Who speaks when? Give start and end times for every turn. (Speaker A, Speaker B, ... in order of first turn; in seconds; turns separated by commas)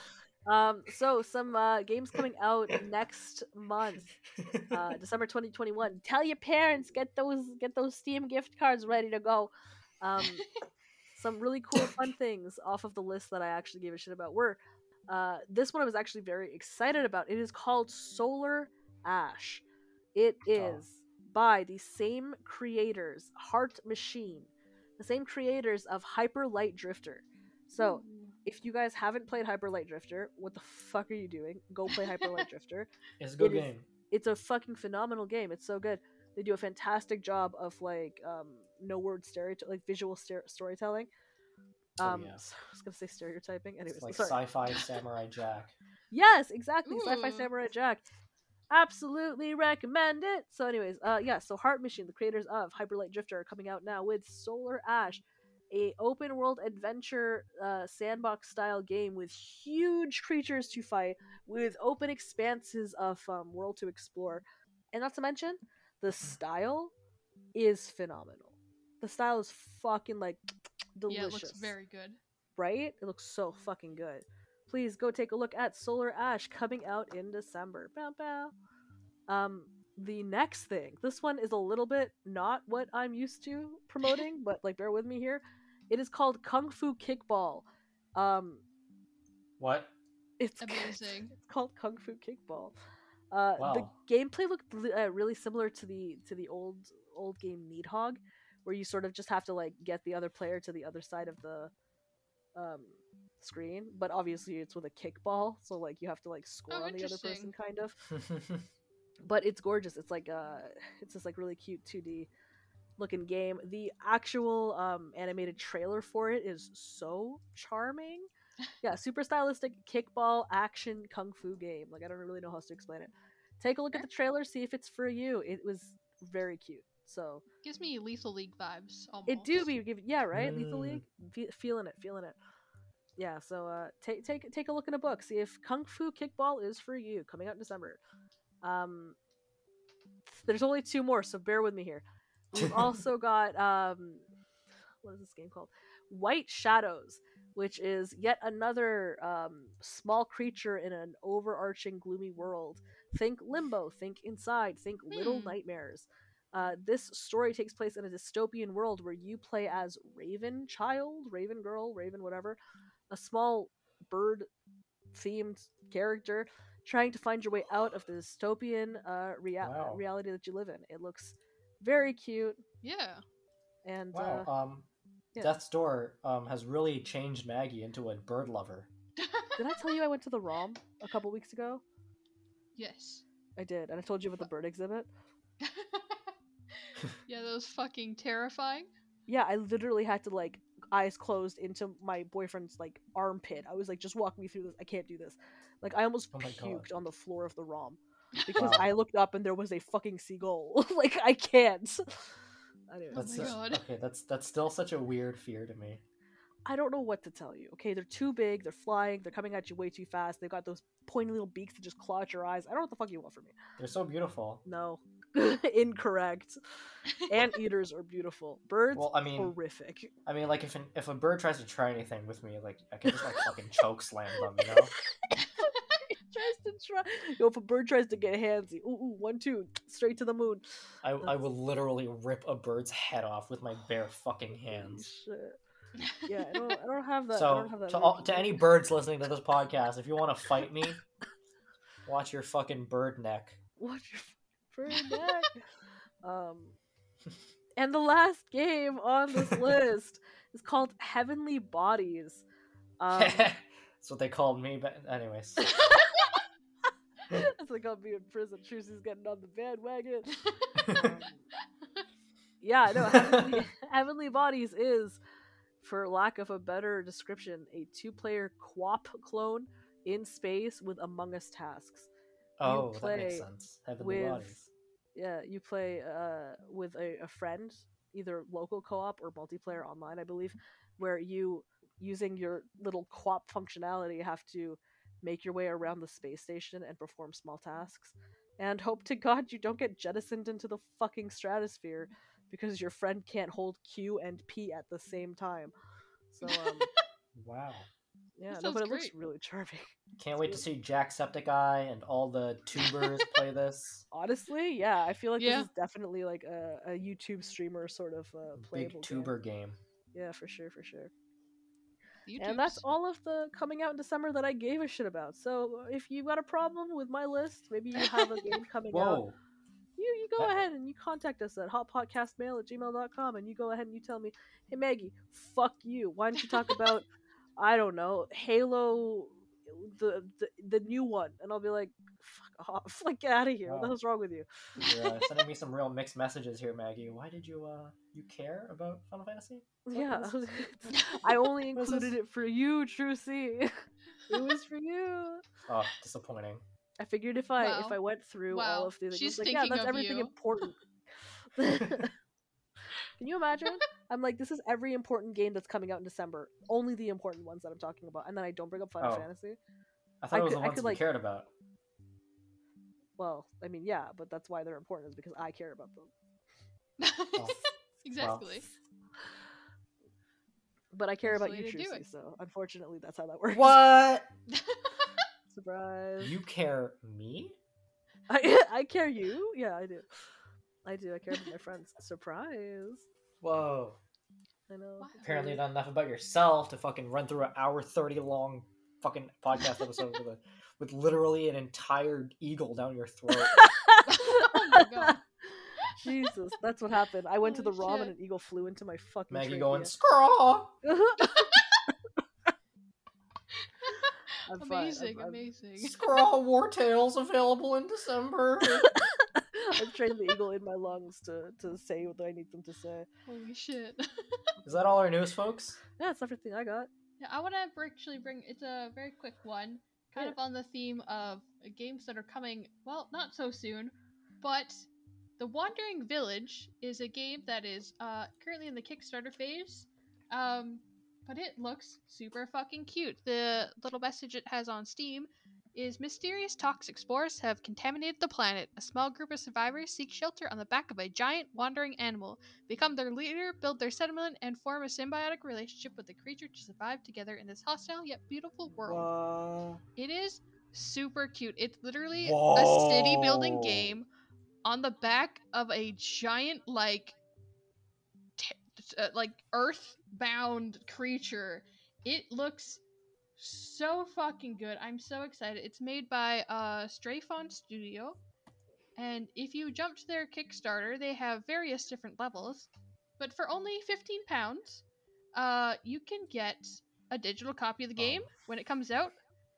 Speaker A: 0.5-4.1, Speaker B: 4.4-5.0, Speaker A: 4.7-10.4, Speaker A: 11.2-19.6, Speaker A: 20.1-41.1, Speaker B: 20.5-20.8, Speaker C: 27.8-28.4, Speaker C: 31.9-32.4, Speaker B: 33.2-33.9, Speaker A: 42.0-44.4, Speaker B: 42.0-42.4, Speaker B: 43.9-45.8, Speaker A: 46.1-48.0, Speaker C: 46.9-47.5, Speaker A: 48.7-66.9, Speaker A: 67.5-70.4, Speaker A: 71.0-71.8, Speaker C: 71.1-72.2, Speaker A: 72.6-78.5, Speaker A: 79.3-88.6, Speaker B: 89.6-89.9, Speaker A: 90.4-92.8, Speaker C: 90.6-91.3, Speaker A: 93.3-101.7, Speaker B: 93.6-93.9, Speaker A: 102.5-108.1, Speaker C: 106.7-107.5, Speaker B: 108.1-108.7, Speaker A: 109.2-112.3, Speaker A: 113.0-118.3, Speaker A: 118.8-127.4, Speaker C: 127.6-129.7, Speaker A: 129.3-132.4, Speaker B: 130.3-131.0, Speaker A: 133.2-138.0, Speaker A: 138.6-139.2, Speaker A: 140.3-144.2, Speaker B: 142.5-143.0, Speaker A: 145.0-162.6, Speaker C: 155.1-155.6, Speaker A: 163.1-164.5, Speaker A: 165.1-172.6, Speaker B: 169.6-170.0, Speaker C: 172.8-173.2, Speaker A: 173.8-174.5, Speaker B: 174.1-174.9, Speaker B: 175.4-178.9, Speaker C: 179.2-180.0, Speaker A: 179.6-181.8, Speaker C: 182.8-183.2, Speaker A: 183.6-185.1, Speaker C: 185.6-188.9, Speaker A: 189.3-202.3, Speaker B: 196.3-196.9, Speaker C: 198.4-198.7, Speaker B: 198.5-198.9, Speaker A: 202.9-203.6, Speaker C: 203.1-203.8, Speaker B: 203.2-206.0, Speaker A: 206.7-213.6, Speaker B: 213.8-214.6, Speaker A: 214.7-216.6, Speaker A: 217.3-220.1, Speaker B: 218.9-219.5, Speaker B: 220.3-224.9, Speaker A: 225.6-230.6, Speaker B: 231.0-235.1, Speaker A: 234.6-235.6, Speaker C: 236.0-236.7, Speaker A: 236.2-238.6, Speaker B: 237.3-241.0, Speaker B: 242.1-243.6, Speaker A: 243.8-245.7, Speaker A: 246.2-246.8, Speaker A: 247.8-252.4, Speaker B: 249.4-249.7, Speaker A: 253.0-253.5, Speaker B: 253.2-255.7, Speaker A: 255.6-255.9, Speaker A: 257.3-260.4, Speaker B: 260.8-261.2, Speaker A: 260.9-261.5, Speaker A: 262.6-265.2, Speaker B: 263.0-263.6, Speaker A: 265.8-272.1, Speaker B: 272.6-274.7, Speaker A: 272.6-273.5, Speaker A: 274.0-274.6, Speaker A: 275.1-295.7, Speaker A: 296.3-296.9, Speaker C: 296.4-297.0, Speaker B: 297.4-297.9, Speaker A: 298.4-300.6, Speaker C: 298.5-299.1, Speaker B: 300.2-304.1, Speaker C: 302.8-303.2, Speaker A: 304.1-309.3, Speaker C: 305.4-305.7, Speaker B: 308.6-309.8, Speaker A: 310.1-311.1, Speaker C: 312.3-312.8, Speaker A: 312.4-319.2, Speaker C: 318.0-318.5, Speaker B: 318.9-319.4, Speaker A: 320.0-327.1, Speaker A: 327.6-334.5, Speaker B: 333.7-333.9, Speaker B: 334.8-340.3, Speaker A: 339.9-343.7, Speaker C: 340.0-340.3, Speaker C: 340.9-341.3, Speaker B: 341.8-342.2, Speaker A: 344.3-345.4, Speaker B: 345.7-346.6, Speaker A: 347.0-350.8, Speaker C: 347.6-350.3, Speaker A: 351.6-352.1, Speaker A: 353.2-359.6, Speaker B: 359.0-359.3, Speaker B: 360.2-361.5, Speaker A: 360.3-361.0, Speaker A: 363.2-366.1, Speaker C: 367.0-368.6, Speaker B: 367.4-367.6, Speaker B: 368.2-368.6, Speaker A: 370.9-373.8, Speaker C: 371.2-372.0, Speaker B: 373.5-374.3, Speaker C: 374.5-375.3, Speaker A: 375.5-376.3, Speaker B: 376.2-377.6, Speaker A: 378.3-380.1, Speaker A: 380.9-383.1, Speaker B: 383.4-384.0, Speaker A: 384.7-385.6, Speaker C: 385.0-385.3, Speaker B: 385.2-393.6, Speaker A: 393.3-395.1, Speaker C: 394.1-395.2, Speaker C: 395.9-396.3, Speaker A: 395.9-399.9, Speaker C: 397.4-398.1, Speaker B: 399.3-400.7, Speaker A: 400.8-401.5, Speaker C: 401.2-401.6, Speaker A: 404.5-405.4, Speaker C: 404.6-406.0, Speaker B: 405.8-408.9, Speaker A: 409.2-413.1, Speaker C: 413.3-414.5, Speaker B: 414.6-415.8, Speaker A: 416.0-416.9, Speaker C: 417.2-424.9, Speaker C: 425.4-449.1, Speaker B: 448.9-449.8, Speaker C: 450.0-454.1, Speaker B: 452.1-453.9, Speaker C: 454.6-457.1, Speaker C: 458.4-462.8, Speaker C: 463.4-468.2, Speaker C: 469.0-474.8, Speaker C: 475.3-479.1, Speaker B: 478.0-478.3